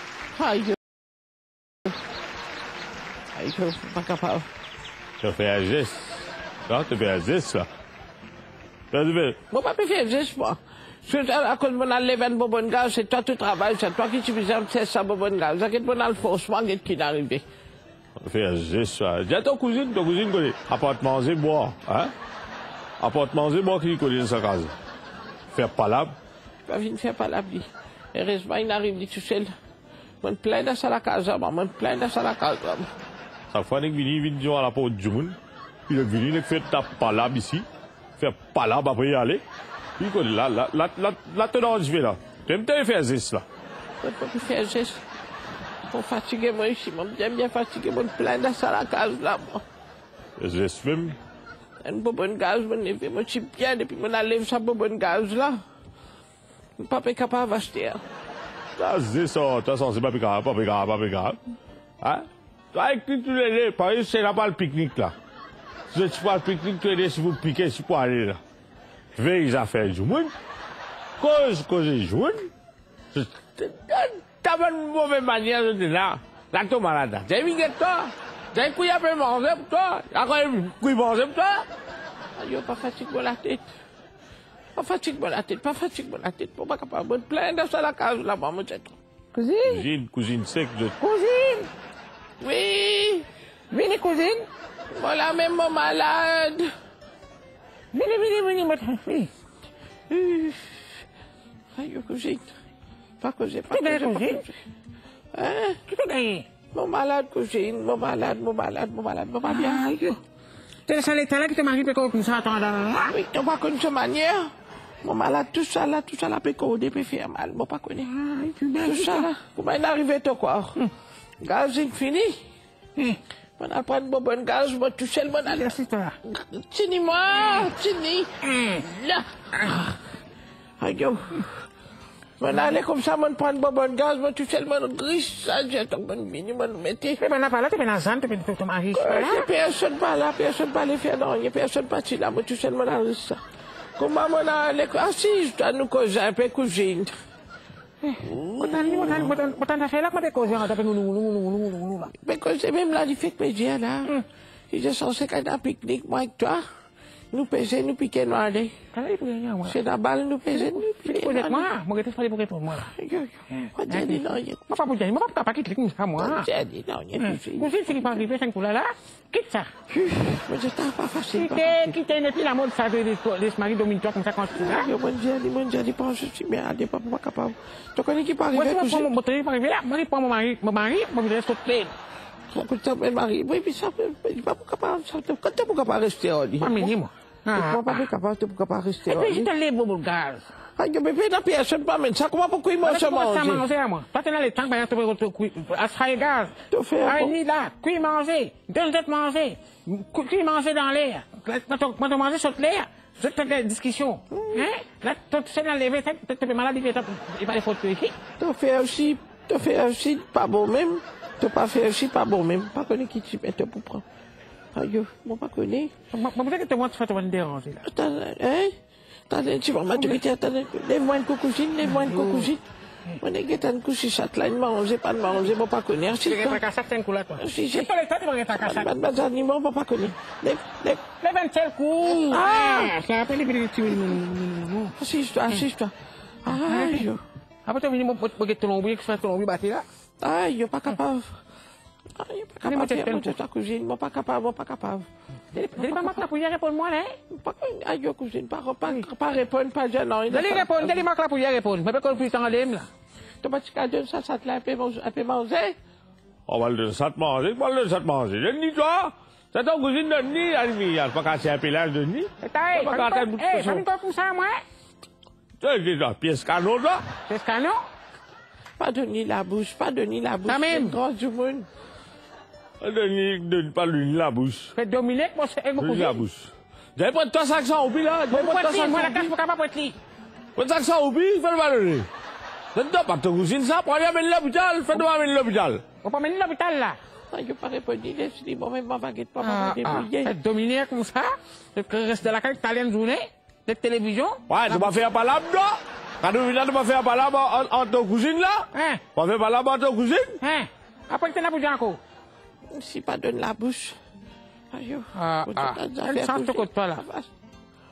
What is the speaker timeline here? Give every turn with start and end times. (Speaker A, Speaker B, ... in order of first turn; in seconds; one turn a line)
Speaker A: 0.3-1.0
Speaker A: 3.3-4.5
Speaker B: 5.2-6.0
Speaker B: 6.7-7.7
Speaker B: 8.9-9.4
Speaker A: 9.5-17.5
Speaker B: 18.2-22.1
Speaker B: 23.0-24.7
Speaker B: 25.5-26.1
Speaker A: 26.7-29.5
Speaker A: 30.2-32.9
Speaker B: 33.5-35.4
Speaker B: 35.9-37.6
Speaker B: 38.2-39.4
Speaker B: 40.0-43.4
Speaker A: 44.0-45.0
Speaker A: 45.9-49.6
Speaker B: 50.4-51.1
Speaker A: 51.8-55.6
Speaker A: 56.8-58.0
Speaker B: 58.8-61.4
Speaker B: 62.0-65.1
Speaker B: 65.9-68.4
Speaker B: 69.2-70.3
Speaker B: 71.2-72.5
Speaker B: 73.1-81.7
Speaker A: 82.4-83.7
Speaker A: 84.7-88.9
Speaker C: 89.3-89.8
Speaker B: 89.6-91.0
Speaker C: 91.0-91.7
Speaker A: 92.4-93.3
Speaker C: 93.7-94.5
Speaker A: 94.9-96.7
Speaker C: 97.9-99.3
Speaker A: 100.1-101.0
Speaker A: 101.7-102.5
Speaker A: 103.2-104.6
Speaker C: 103.7-104.4
Speaker A: 105.3-105.8
Speaker C: 105.9-106.5
Speaker A: 106.7-109.9
Speaker C: 109.5-110.2
Speaker C: 110.9-113.1
Speaker A: 113.1-118.1
Speaker C: 118.1-119.3
Speaker A: 118.8-120.8
Speaker A: 121.4-122.4
Speaker A: 123.6-130.0
Speaker C: 125.5-126.2
Speaker C: 128.4-128.8
Speaker A: 130.8-131.7
Speaker A: 132.4-137.2
Speaker C: 137.2-139.5
Speaker A: 138.9-143.4
Speaker A: 144.0-147.1
Speaker C: 148.0-152.1
Speaker A: 148.2-149.4
Speaker A: 152.1-154.2
Speaker A: 154.7-156.7
Speaker A: 157.3-158.8
Speaker C: 158.9-159.8
Speaker A: 159.7-161.7
Speaker C: 160.5-162.9
Speaker A: 162.7-164.8
Speaker C: 163.5-166.5
Speaker A: 166.2-168.1
Speaker C: 167.2-169.7
Speaker A: 169.9-172.0
Speaker C: 171.3-174.9
Speaker A: 174.5-179.1
Speaker C: 178.5-181.9
Speaker A: 182.5-186.9
Speaker C: 186.6-188.1
Speaker A: 187.5-189.5
Speaker C: 189.1-190.4
Speaker A: 190.8-193.7
Speaker C: 192.8-208.2
Speaker A: 196.7-197.3
Speaker A: 204.3-204.7
Speaker A: 208.4-214.0
Speaker A: 214.7-215.9
Speaker C: 216.1-217.8
Speaker A: 217.8-218.8
Speaker A: 219.3-222.6
Speaker C: 221.8-222.5
Speaker A: 223.2-226.6
Speaker C: 226.2-228.9
Speaker A: 227.4-227.9
Speaker A: 228.5-231.0
Speaker C: 231.2-235.0
Speaker A: 232.0-232.9
Speaker A: 235.0-237.2
Speaker C: 236.5-237.1
Speaker C: 237.7-239.8
Speaker A: 240.2-241.4
Speaker A: 242.1-245.1
Speaker C: 242.6-243.4
Speaker C: 245.5-247.2
Speaker A: 245.7-246.2
Speaker A: 247.3-251.1
Speaker C: 250.3-252.9
Speaker A: 253.4-255.8
Speaker B: 256.5-263.9
Speaker C: 262.4-264.6
Speaker B: 265.6-267.0
Speaker C: 267.3-267.8
Speaker A: 268.8-271.7
Speaker C: 270.5-271.0
Speaker B: 272.8-274.7
Speaker C: 274.7-276.2
Speaker B: 275.8-279.3
Speaker C: 278.3-279.9
Speaker B: 280.6-282.1
Speaker B: 282.7-285.8
Speaker C: 286.0-287.0
Speaker A: 287.3-290.3
Speaker C: 289.4-295.0
Speaker B: 294.5-300.4
Speaker C: 298.7-299.0
Speaker C: 300.4-302.0
Speaker A: 302.7-304.0
Speaker A: 304.7-307.3
Speaker C: 305.1-307.0